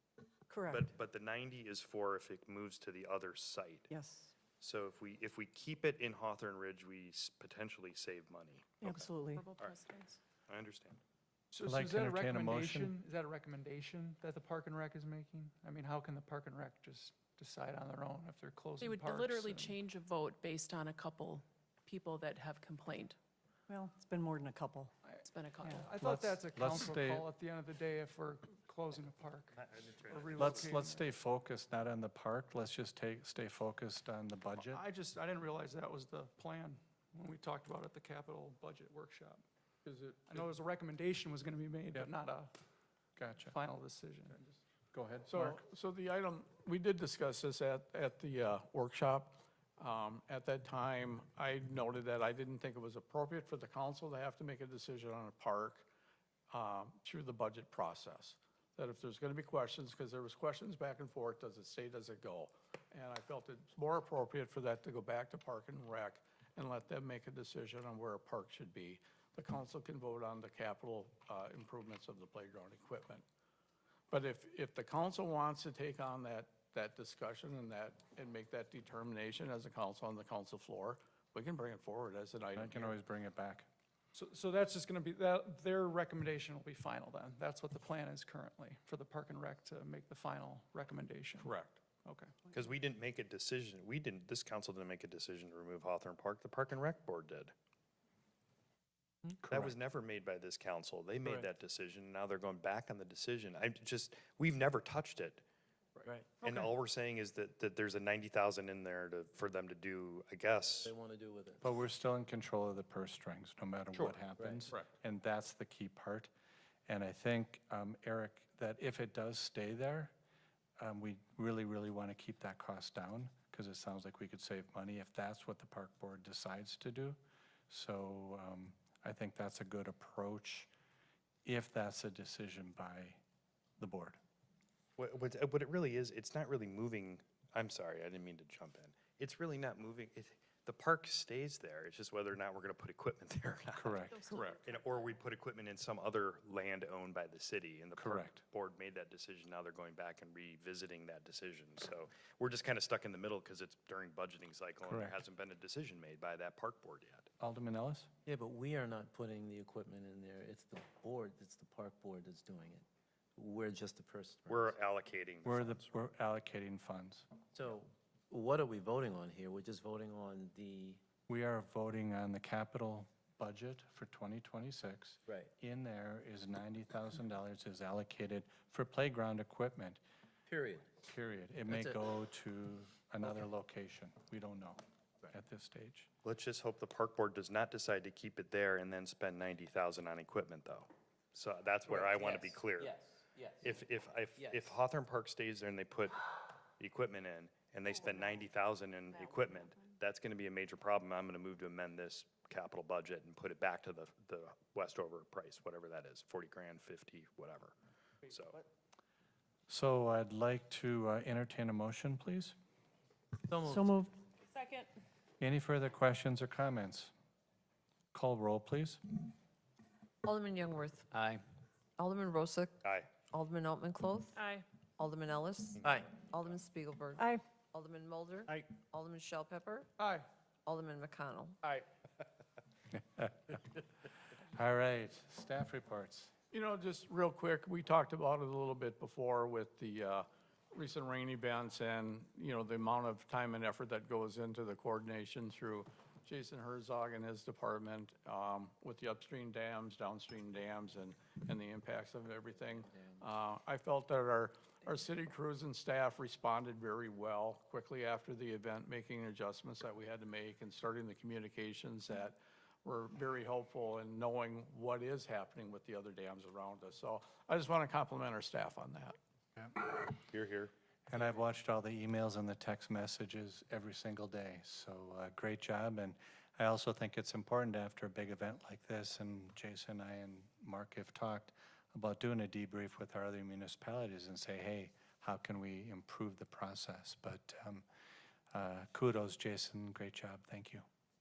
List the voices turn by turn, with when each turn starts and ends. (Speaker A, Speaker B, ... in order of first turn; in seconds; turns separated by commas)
Speaker A: 0.5-0.8, Speaker B: 0.7-3.9, Speaker A: 3.9-4.3, Speaker B: 4.6-9.8, Speaker A: 8.8-9.4, Speaker C: 8.9-10.2, Speaker B: 10.5-11.0, Speaker D: 11.5-19.8, Speaker E: 11.7-13.0, Speaker C: 18.8-23.2, Speaker A: 23.7-24.9, Speaker D: 25.1-31.1, Speaker C: 25.2-25.9, Speaker E: 26.0-27.3, Speaker B: 29.6-30.6, Speaker E: 30.4-34.8, Speaker D: 34.7-39.4, Speaker F: 39.9-40.5, Speaker D: 40.2-42.5, Speaker E: 43.2-43.5, Speaker D: 43.4-44.6, Speaker E: 44.9-45.6, Speaker F: 45.3-55.9, Speaker F: 56.5-73.2, Speaker F: 74.1-83.0, Speaker E: 82.5-83.7, Speaker D: 84.2-92.3, Speaker F: 91.4-91.8, Speaker B: 92.5-97.5, Speaker E: 99.5-99.7, Speaker B: 99.5-105.4, Speaker G: 106.1-106.4, Speaker B: 106.4-111.0, Speaker G: 110.8-111.6, Speaker E: 111.6-116.3, Speaker G: 114.4-114.6, Speaker E: 116.9-120.1, Speaker E: 120.8-127.2, Speaker E: 127.7-130.7, Speaker E: 131.4-133.2, Speaker E: 133.8-134.2, Speaker B: 135.0-157.3, Speaker E: 143.8-144.2, Speaker C: 144.1-145.1, Speaker E: 148.0-148.4, Speaker E: 154.8-155.2, Speaker E: 157.4-158.1, Speaker G: 158.3-162.8, Speaker G: 163.4-164.8, Speaker B: 164.5-165.9, Speaker E: 165.4-167.3, Speaker G: 167.5-171.0, Speaker E: 171.3-180.0, Speaker G: 180.5-180.9, Speaker E: 181.0-186.1, Speaker G: 181.7-182.0, Speaker B: 186.2-193.0, Speaker G: 191.9-193.7, Speaker B: 193.6-207.8, Speaker G: 194.4-194.7, Speaker B: 208.3-208.6, Speaker E: 209.7-212.6, Speaker G: 213.4-214.1, Speaker A: 213.8-214.1, Speaker C: 214.6-214.8, Speaker E: 215.4-217.1, Speaker E: 218.1-219.0, Speaker H: 220.2-221.1, Speaker H: 222.0-224.4, Speaker B: 222.8-223.1, Speaker C: 224.4-224.7, Speaker H: 225.0-229.9, Speaker D: 230.0-230.2, Speaker H: 230.7-231.6, Speaker E: 233.2-233.6, Speaker E: 234.5-236.3, Speaker F: 236.5-269.2, Speaker G: 252.9-253.2, Speaker B: 270.2-270.7, Speaker E: 271.1-287.9, Speaker E: 288.5-290.8